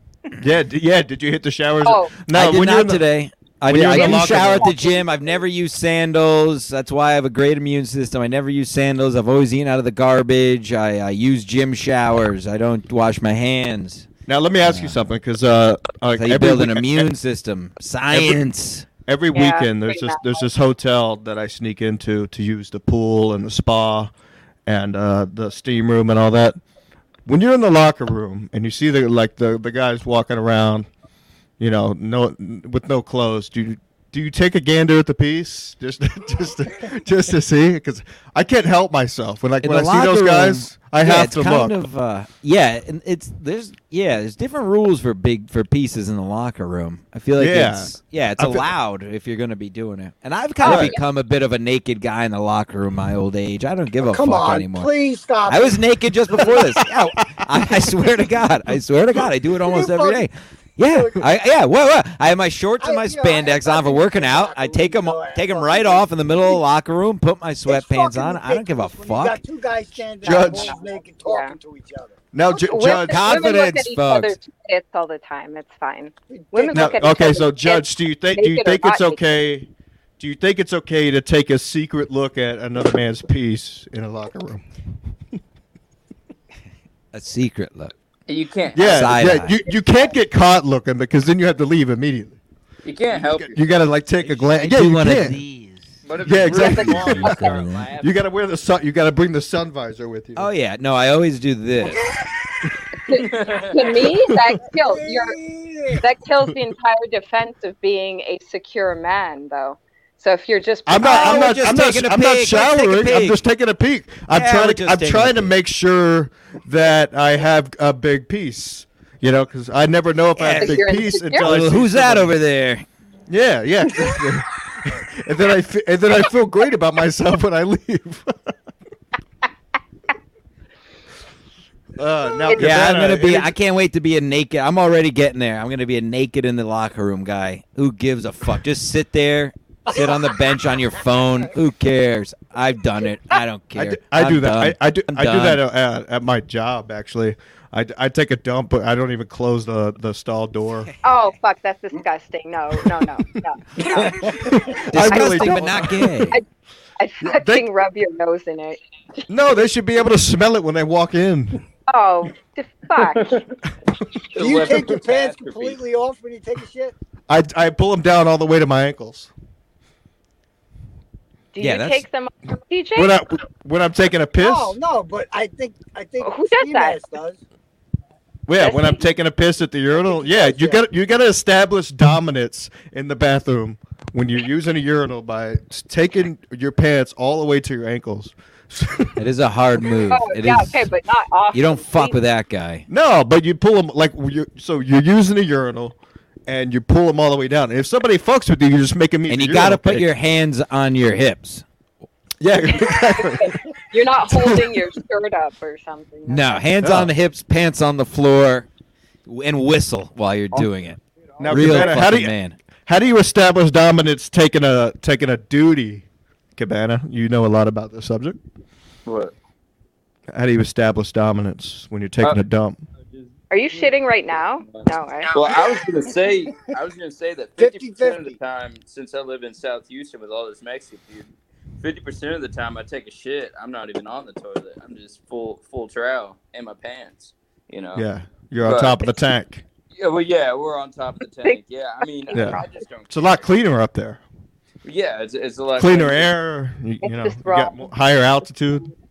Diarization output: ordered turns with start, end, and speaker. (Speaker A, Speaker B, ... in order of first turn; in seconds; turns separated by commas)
Speaker A: 0.4-3.0, Speaker B: 1.9-2.1, Speaker C: 2.3-14.1, Speaker A: 3.7-4.7, Speaker B: 3.9-5.3, Speaker A: 14.3-17.1, Speaker C: 14.6-14.9, Speaker C: 16.2-18.9, Speaker A: 18.1-18.4, Speaker A: 19.1-24.1, Speaker B: 19.3-20.4, Speaker A: 24.7-26.6, Speaker A: 27.3-30.9, Speaker A: 31.6-41.8, Speaker C: 39.6-54.9, Speaker A: 47.4-48.7, Speaker A: 50.6-51.0, Speaker B: 50.6-51.0, Speaker D: 54.0-55.8, Speaker C: 55.5-69.4, Speaker A: 56.4-57.5, Speaker D: 59.6-60.3, Speaker D: 60.9-61.2, Speaker D: 62.8-66.6, Speaker D: 67.7-72.1, Speaker A: 70.2-70.7, Speaker B: 70.3-71.5, Speaker A: 72.3-73.4, Speaker B: 72.5-79.2, Speaker C: 73.0-74.4, Speaker D: 76.3-76.8, Speaker A: 76.7-84.6, Speaker C: 87.1-87.9, Speaker E: 88.3-89.5, Speaker A: 88.7-92.4, Speaker C: 88.8-89.6, Speaker E: 92.8-93.6, Speaker A: 93.2-95.4, Speaker C: 94.2-97.9, Speaker E: 96.0-98.2, Speaker A: 96.2-100.5, Speaker B: 96.5-97.6, Speaker C: 100.4-102.0, Speaker B: 103.1-105.4, Speaker E: 103.1-104.1, Speaker D: 104.7-106.0, Speaker B: 106.0-111.6, Speaker A: 110.9-122.3, Speaker C: 111.0-113.4, Speaker C: 114.3-115.5, Speaker B: 120.4-121.5, Speaker C: 120.5-122.9, Speaker A: 123.3-128.5, Speaker A: 132.0-133.5, Speaker B: 132.4-132.7, Speaker C: 132.6-145.6, Speaker D: 139.9-140.2, Speaker A: 143.8-150.9, Speaker B: 151.0-154.3, Speaker A: 153.8-156.3, Speaker D: 154.0-154.8, Speaker C: 154.9-156.4, Speaker B: 157.0-159.2, Speaker A: 157.2-157.7, Speaker A: 159.3-161.6, Speaker B: 161.9-163.4, Speaker E: 163.2-163.5, Speaker E: 164.3-165.8, Speaker D: 164.4-166.9, Speaker A: 167.3-169.3, Speaker B: 171.5-173.2, Speaker C: 171.6-172.0, Speaker A: 173.0-174.8, Speaker D: 174.4-177.4, Speaker B: 176.2-177.0, Speaker A: 178.5-189.2, Speaker B: 178.6-179.0, Speaker D: 179.9-180.8, Speaker C: 189.2-190.9, Speaker B: 190.1-192.2, Speaker C: 191.5-192.9, Speaker A: 192.9-196.0, Speaker A: 196.5-200.1, Speaker C: 199.3-201.6, Speaker A: 202.4-203.6, Speaker B: 202.7-206.6, Speaker A: 204.3-204.8, Speaker C: 206.3-208.7, Speaker A: 206.8-207.1, Speaker C: 209.3-212.6, Speaker D: 211.2-212.0, Speaker A: 211.4-212.3, Speaker A: 212.9-216.1, Speaker A: 216.6-218.4, Speaker E: 219.1-219.3, Speaker A: 220.3-222.8, Speaker E: 223.1-238.1, Speaker B: 223.5-225.4, Speaker D: 227.6-228.4, Speaker A: 237.9-239.6, Speaker E: 238.6-239.1, Speaker E: 239.9-243.5, Speaker B: 241.4-242.8, Speaker A: 242.3-244.2, Speaker E: 244.8-246.3, Speaker A: 245.8-248.9, Speaker B: 247.0-247.9